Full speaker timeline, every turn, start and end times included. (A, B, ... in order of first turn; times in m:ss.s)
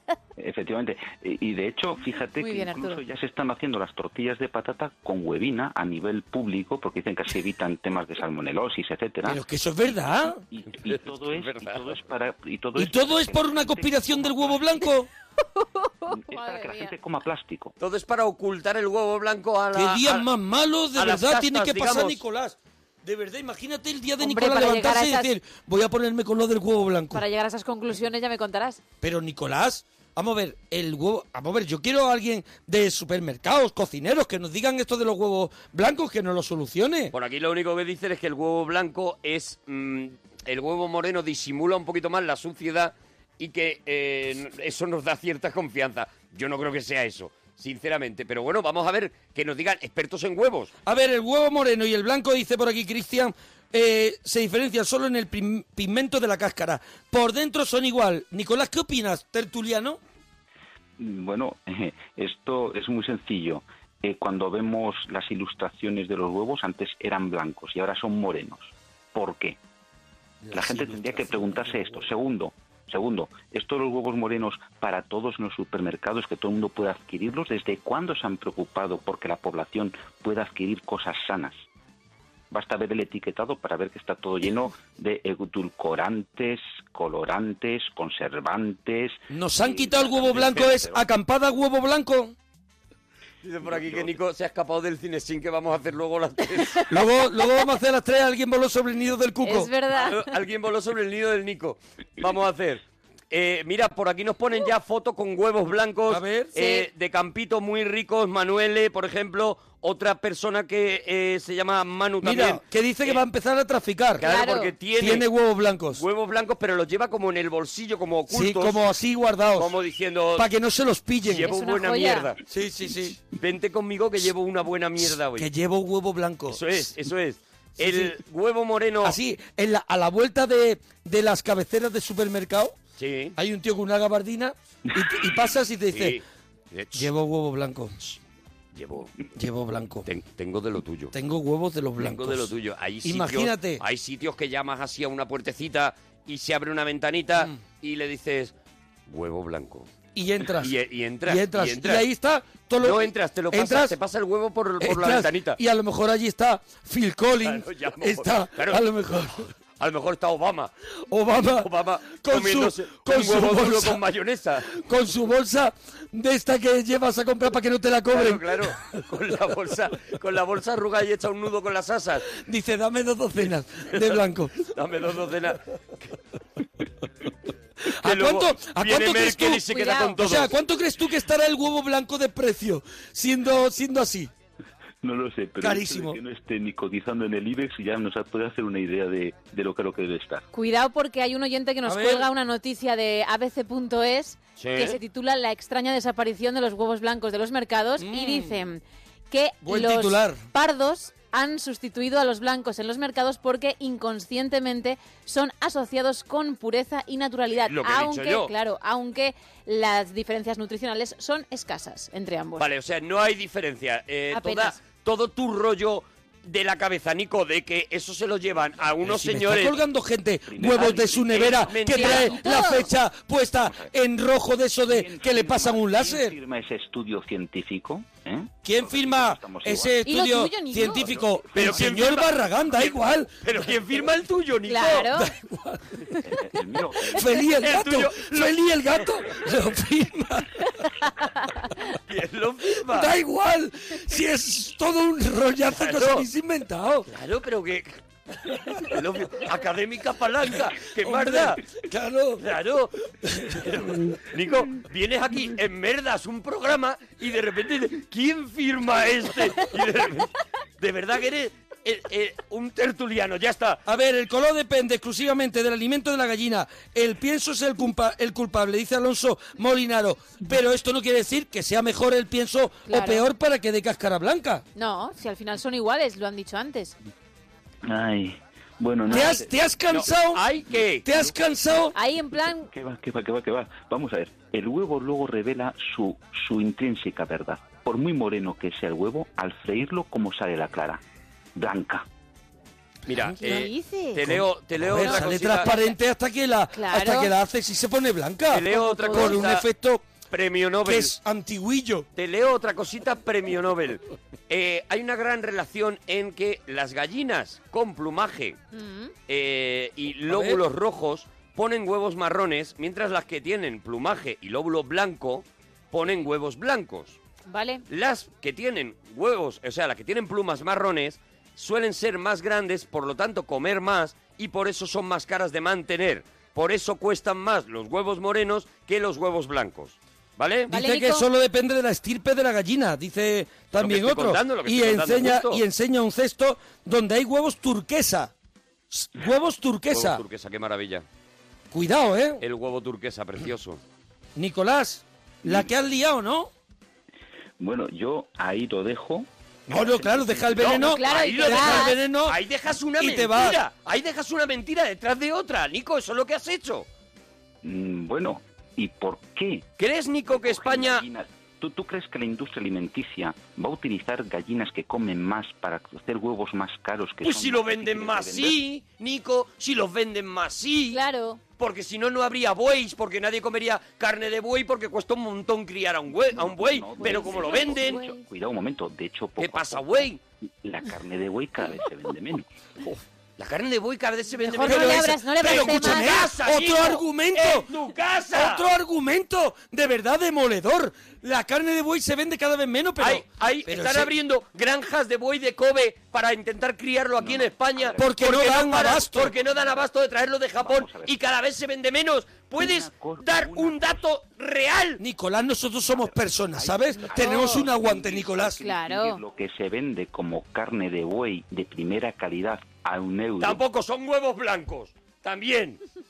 0:00.4-0:09.4 A
0:02.4-0:03.0 B
0:09.3-0:10.4 C
0:10.5-0:14.7 A
0:10.9-0:11.9 D
0:12.8-0:15.1 C
0:15.6-0:16.9 B
0:16.1-0:17.7 A
0:17.8-0:20.3 D
0:19.7-0:27.2 C
0:21.0-0:22.2 D
0:24.2-0:25.4 B
0:27.1-0:28.8 B
0:29.0-0:37.1 C
0:37.1-0:50.7 D
0:50.9-1:00.0 C
1:01.0-1:09.6 A
1:10.4-1:12.1 C
1:10.5-1:21.6 A
1:22.5-1:29.2 A
1:29.3-1:32.3 C
1:30.0-1:30.9 D
1:30.0-1:31.0 A
1:33.4-1:36.9 D
1:36.9-1:39.7 C
1:39.4-1:40.3 B
1:39.9-1:53.2 D
1:46.1-1:46.6 C
1:46.6-1:46.9 B
1:52.2-1:54.2 C
1:54.2-1:55.3 D
1:54.2-1:54.7 B
1:55.0-1:56.0 C
1:55.9-1:58.8 D
1:58.3-1:59.7 C
1:59.6-2:00.5 D
2:00.4-2:01.5 C
2:01.3-2:02.4 D
2:01.4-2:02.3 B
2:02.5-2:03.2 C
2:03.3-2:05.5 D
2:05.4-2:06.6 C
2:06.5-2:09.2 D
2:07.8-2:08.2 C
2:09.0-2:12.8 C
2:13.0-2:13.4 D
2:13.4-2:16.2 C
2:15.9-2:17.1 D
2:16.9-2:18.0 C
2:18.7-2:19.1 D
2:19.4-2:20.1 C
2:20.1-2:21.1 D
2:21.1-2:22.5 C
2:22.0-2:28.5 D
2:23.0-2:23.8 C
2:29.1-2:29.9 D
2:30.2-2:30.7 C
2:30.6-2:32.0 D
2:31.3-2:34.0 C
2:32.8-2:35.6 D
2:34.8-2:39.5 C
2:37.4-2:40.7 D
2:41.1-2:41.7 C
2:41.4-2:44.8 D
2:42.2-2:44.0 C
2:44.7-2:48.6 C
2:48.1-2:52.3 D
2:52.3-2:54.7 C
2:54.0-2:56.1 D
2:58.0-2:59.6 C
2:58.0-3:00.6 D
2:59.7-3:00.2 B
3:00.2-3:04.3 C
3:05.0-3:10.4 A
3:05.6-3:06.2 C
3:10.5-3:32.7 B
3:11.9-3:12.3 C
3:14.6-3:15.0 D
3:18.0-3:18.6 C
3:19.6-3:20.4 C
3:27.7-3:28.5 D
3:32.6-3:39.8 D
3:34.3-3:34.8 B
3:39.0-3:46.3 C
3:40.5-3:41.9 A
3:41.3-3:42.8 D
3:41.9-3:42.9 B
3:43.6-3:43.9 A
3:44.9-3:50.0 A
3:48.6-3:53.5 C
3:50.0-3:51.2 B
3:51.5-3:55.2 D
3:54.7-3:55.3 B
3:55.2-3:55.8 C
3:56.2-3:57.3 A
3:57.1-4:00.6 C
3:57.6-3:59.0 D
4:02.1-4:03.1 D
4:02.9-4:07.1 C
4:05.7-4:06.3 D
4:07.1-4:08.0 D
4:08.8-4:11.6 D
4:11.0-4:12.4 C
4:12.4-4:12.9 D
4:13.3-4:13.6 C
4:13.5-4:23.8 D
4:23.9-4:34.6 C
4:32.9-4:33.3 B
4:34.8-4:37.0 B
4:37.8-4:39.6 A
4:39.1-4:40.4 C
4:39.9-4:41.0 D
4:41.0-4:42.0 C
4:41.9-4:42.7 B
4:42.6-4:51.0 A
4:51.6-4:52.1 A
4:53.1-4:55.7 D
4:53.2-4:53.5 C
4:53.4-4:54.2 B
4:54.3-5:00.0 C
4:55.0-4:56.0 B
4:56.7-4:57.3 B
4:58.5-4:59.7 D
4:58.7-4:59.4 B
5:00.3-5:01.2 D
5:00.8-5:02.1 C
5:02.2-5:08.6 D
5:08.7-5:09.1 B
5:09.3-5:17.2 D
5:10.3-5:10.6 C
5:17.5-5:17.8 B
5:17.9-5:30.7 D
5:30.7-5:38.3 C
5:30.7-5:31.3 B
5:33.7-5:35.6 D
5:38.9-5:40.2 C
5:39.9-5:41.0 D
5:41.7-5:42.4 C
5:42.4-5:43.8 D
5:44.4-5:46.5 C
5:47.6-5:50.7 A
5:49.7-5:52.4 C
5:50.6-5:56.9 D
5:50.7-5:52.0 B
5:53.0-5:53.6 C
5:57.6-5:59.7 A
5:59.8-6:01.0 D
6:00.3-6:08.6 A
6:07.2-6:11.0 D
6:10.9-6:11.4 B
6:11.6-6:18.1 D
6:16.3-6:20.1 A
6:17.0-6:18.2 B
6:19.4-6:20.2 D
6:20.6-6:22.5 A
6:22.9-6:28.7 D
6:24.4-6:26.3 B
6:24.6-6:27.7 C
6:28.3-6:34.1 C
6:33.0-6:45.0 D
6:37.2-6:39.9 A
6:38.0-6:39.3 C
6:40.6-6:41.2 A
6:42.6-6:44.0 A
6:45.0-6:48.6 C
6:45.9-6:53.6 A
6:47.0-6:47.7 B
6:48.6-6:49.2 B
6:53.4-6:55.8 D